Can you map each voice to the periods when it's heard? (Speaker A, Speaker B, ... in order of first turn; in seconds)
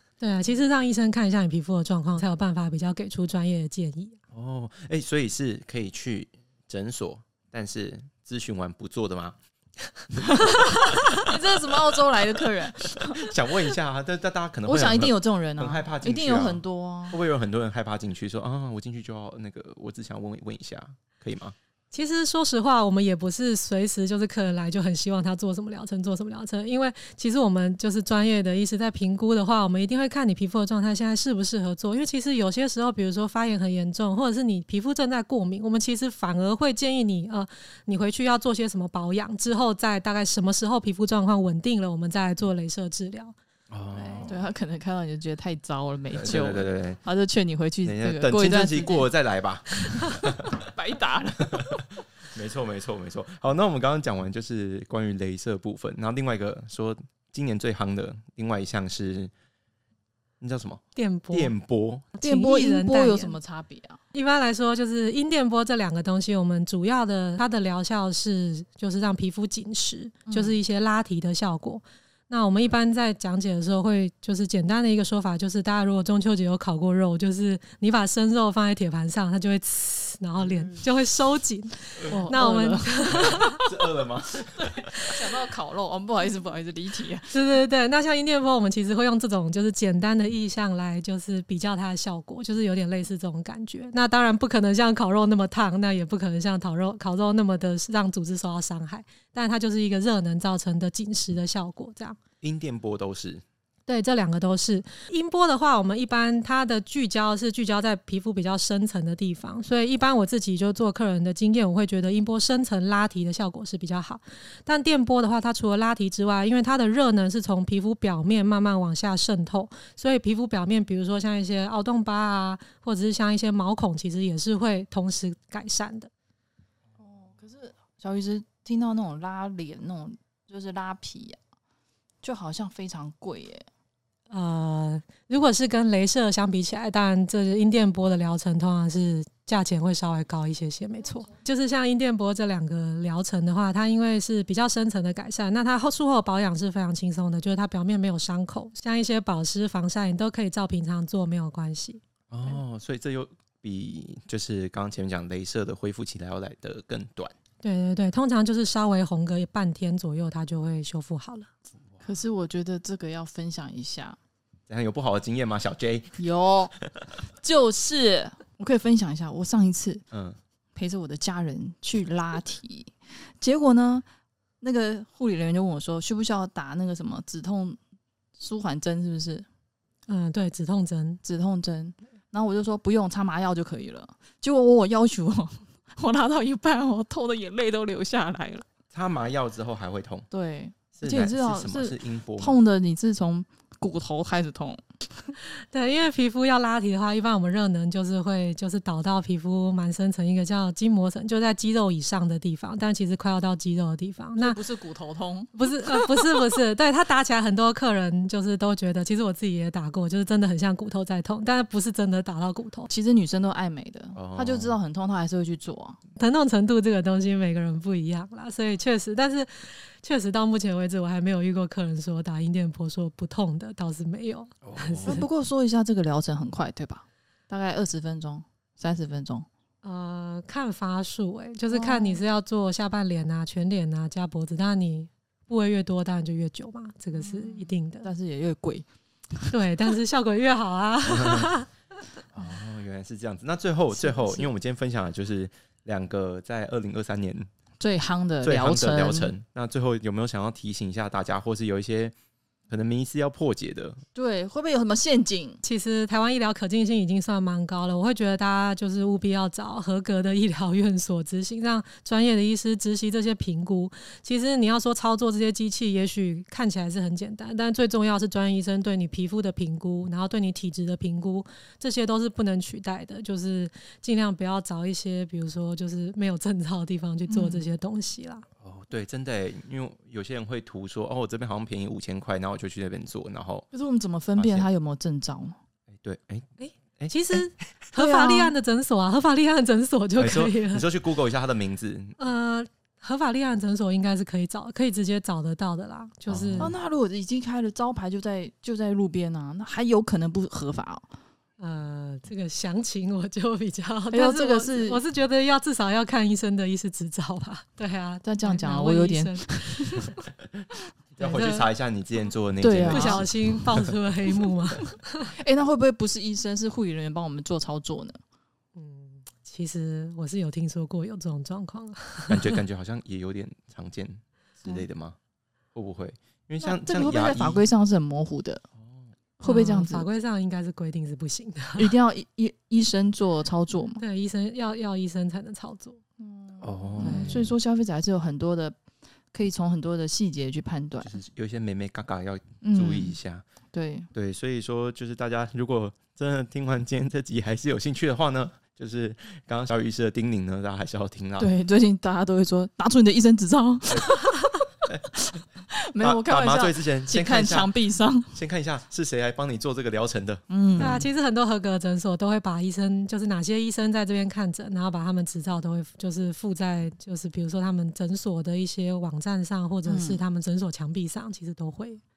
Speaker A: 0.2-4.2, 21.9-43.4, 61.0-61.5, 62.1-63.4, 64.1-83.6, 87.3-102.2, 103.9-126.1, 134.3-152.6, 157.6-161.5, 180.1-181.2, 195.7-204.6, 205.5-212.9, 216.2-225.3, 229.8-238.1, 239.5-241.7, 255.6-278.4, 286.6-290.9, 292.2-296.7, 301.6-310.0, 311.2-311.7, 312.9-315.3, 318.8-322.6, 329.4-331.9, 334.0-336.0, 337.0-337.4, 360.8-372.0
Speaker B: 4.3-9.4, 13.1-21.6, 43.7-44.4, 46.1-47.0, 47.9-50.6, 52.3-59.3, 60.4-62.1, 83.1-85.0, 102.4-103.4, 152.3-157.3, 164.7-166.2, 170.1-170.4, 188.9-190.3, 191.0-192.6, 214.2-214.8, 224.6-225.2, 241.1-241.5, 242.3-247.5, 248.4-252.1, 252.7-254.0, 278.6-283.7, 284.4-284.7, 286.0-286.5, 290.2-292.2, 296.3-296.8, 311.2-313.8, 322.3-325.2, 325.8-327.6, 336.6-337.5, 341.0-343.4, 344.1-351.5, 356.0-357.7, 358.3-361.0
Speaker C: 11.1-13.2, 14.7-17.2, 43.9-49.1, 50.6-51.8, 62.2-64.0, 70.3-70.6, 82.1-83.5, 85.0-87.3, 127.0-131.4, 132.2-133.7, 162.0-164.2, 166.2-170.0, 170.8-174.1, 174.6-177.8, 178.4-179.4, 181.2-188.7, 190.3-194.8, 204.3-206.0, 212.9-216.0, 225.1-229.5, 231.7-232.2, 237.2-238.9, 243.9-244.5, 247.8-249.3, 254.2-255.6, 277.3-277.6, 283.7-285.6, 288.0-288.5, 296.6-301.1, 304.1-305.0, 308.2-310.2, 312.6-313.3, 315.3-318.2, 326.6-328.6, 329.4-330.1, 331.8-334.0, 336.2-338.8, 339.3-341.1, 342.6-343.2, 343.7-344.1, 351.4-354.5, 355.8-358.4, 360.5-361.1, 369.9-370.2